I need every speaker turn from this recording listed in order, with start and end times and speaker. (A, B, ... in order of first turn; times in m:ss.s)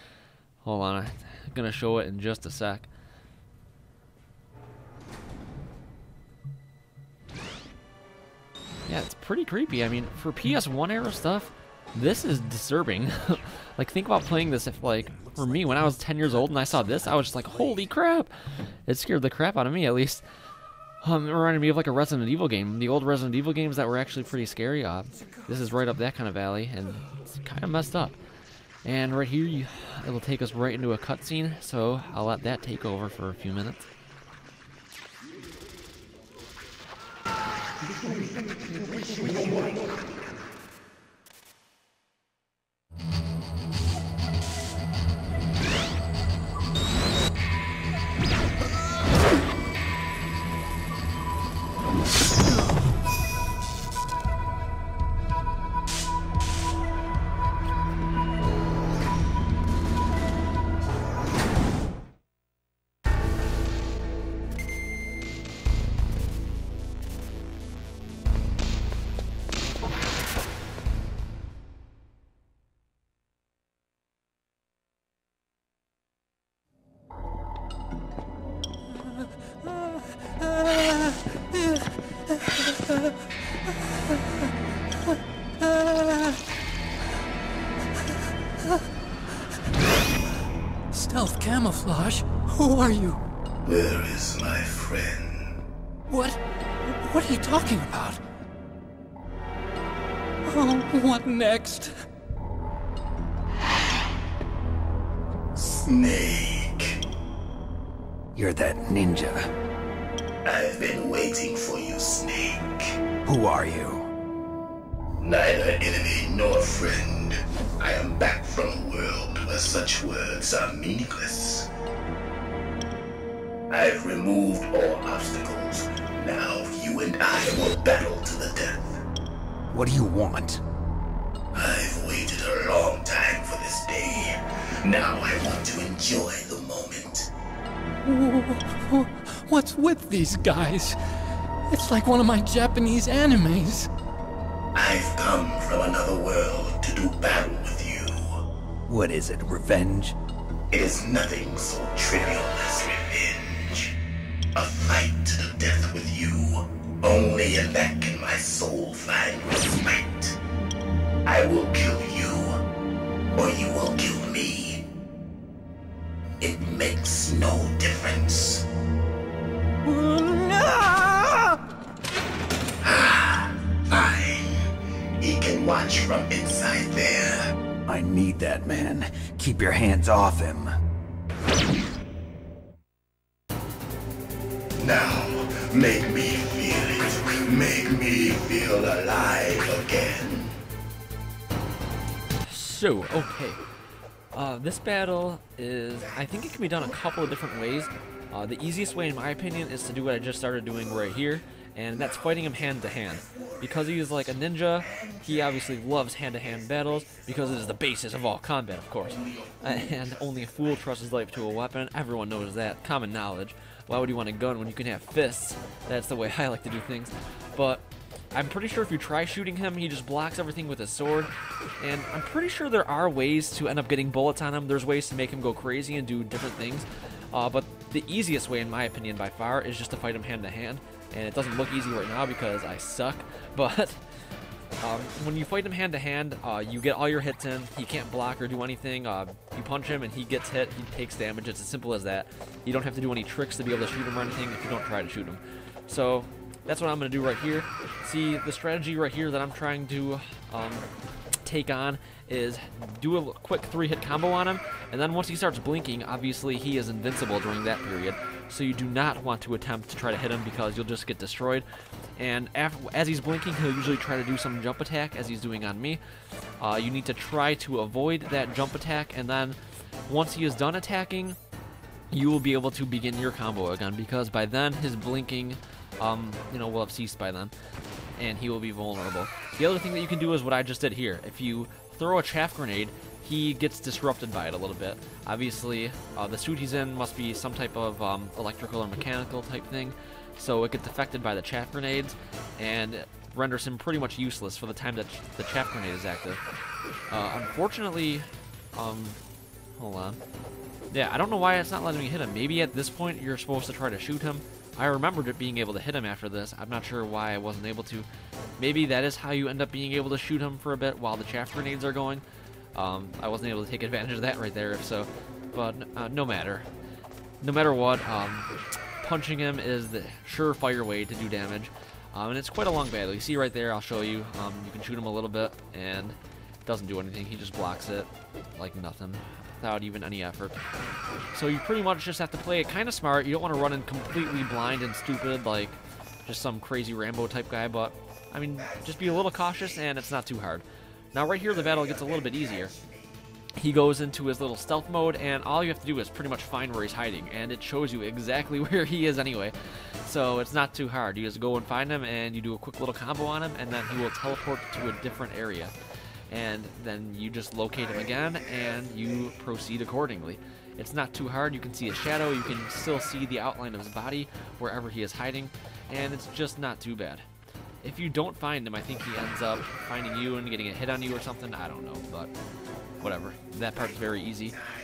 0:00.6-0:02.9 A
0:08.9-0:18.3 A
0:18.9-0:20.2 A
0:21.0-0:28.2 A
0:28.8-0:33.9 A
1:20.4-1:23.1 B
1:25.1-1:26.4 B
1:30.9-1:33.2 B
1:33.6-1:35.6 C
1:36.1-1:38.2 B
1:40.5-1:41.9 B
1:45.6-1:47.0 C
1:48.4-1:49.5 D
1:50.4-1:53.0 C
1:53.2-1:54.1 D
1:55.2-2:01.7 C
2:03.7-2:09.0 C
2:09.7-2:10.6 D
2:11.6-2:17.3 C
2:18.0-2:21.0 B
2:21.7-2:23.9 B
2:24.8-2:28.4 C
2:28.9-2:30.2 D
2:30.7-2:34.0 C
2:34.6-2:40.4 C
2:41.3-2:42.6 C
2:43.3-2:44.8 C
2:46.4-2:48.6 C
2:49.9-2:51.6 B
2:52.8-2:54.7 C
2:55.2-2:57.5 C
2:57.9-3:00.7 D
3:04.8-3:10.6 C
3:12.5-3:13.6 A
3:14.3-3:54.0 A
3:29.2-3:29.9 C
3:54.8-4:10.9 A
4:11.4-4:21.7 A
4:22.2-4:26.0 A
4:26.6-4:31.4 A
4:32.1-4:37.5 A
4:38.2-4:56.4 A
4:57.1-4:59.2 A
4:59.8-5:00.2 A
5:00.9-5:08.1 A
5:08.6-5:12.2 A
5:12.8-5:16.7 A
5:17.4-5:30.6 A
5:31.3-5:42.7 A
5:43.6-5:55.7 A
5:56.3-6:07.3 A
6:07.8-6:12.3 A
6:13.0-6:14.6 A